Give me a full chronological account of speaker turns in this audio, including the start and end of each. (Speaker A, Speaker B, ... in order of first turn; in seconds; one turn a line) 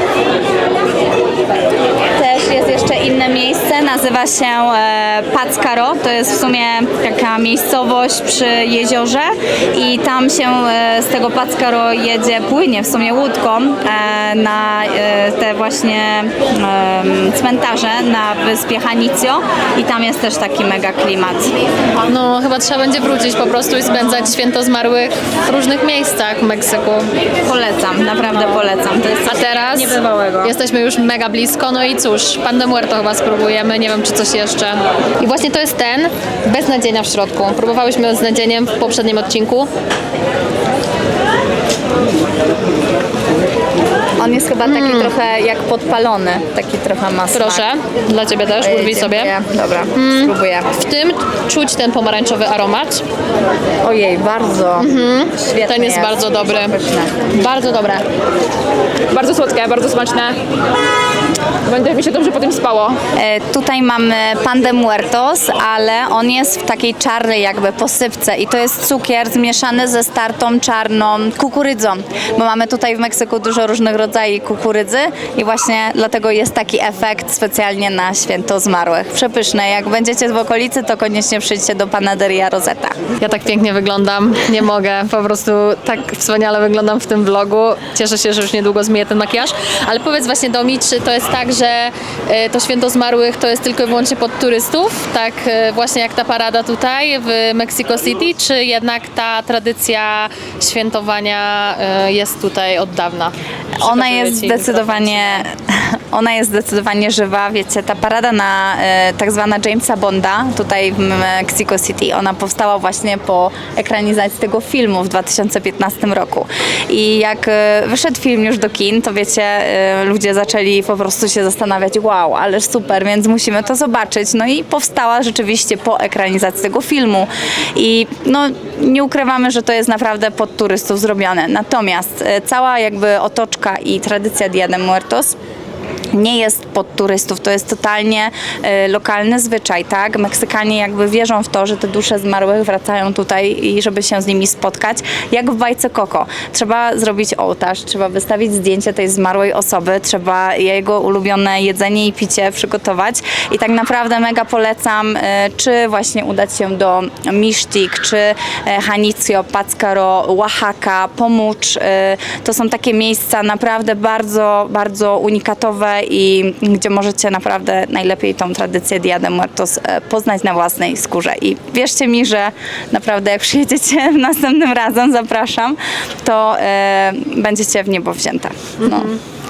Speaker A: 2.1-21.5
Speaker B: 22.0-27.1
Speaker A: 27.4-30.5
Speaker B: 29.2-39.7
Speaker A: 44.2-47.7
Speaker B: 44.6-45.1
Speaker B: 47.3-49.3
Speaker A: 48.6-50.7
Speaker B: 49.9-53.0
Speaker A: 53.8-57.2
Speaker B: 54.8-56.8
Speaker B: 57.3-58.0
Speaker C: 59.1-60.4
Speaker C: 61.6-63.0
Speaker A: 63.1-83.0
Speaker B: 83.2-105.5
Speaker A: 103.8-135.3
Speaker A: 136.1-179.1
Speaker B: 178.8-179.2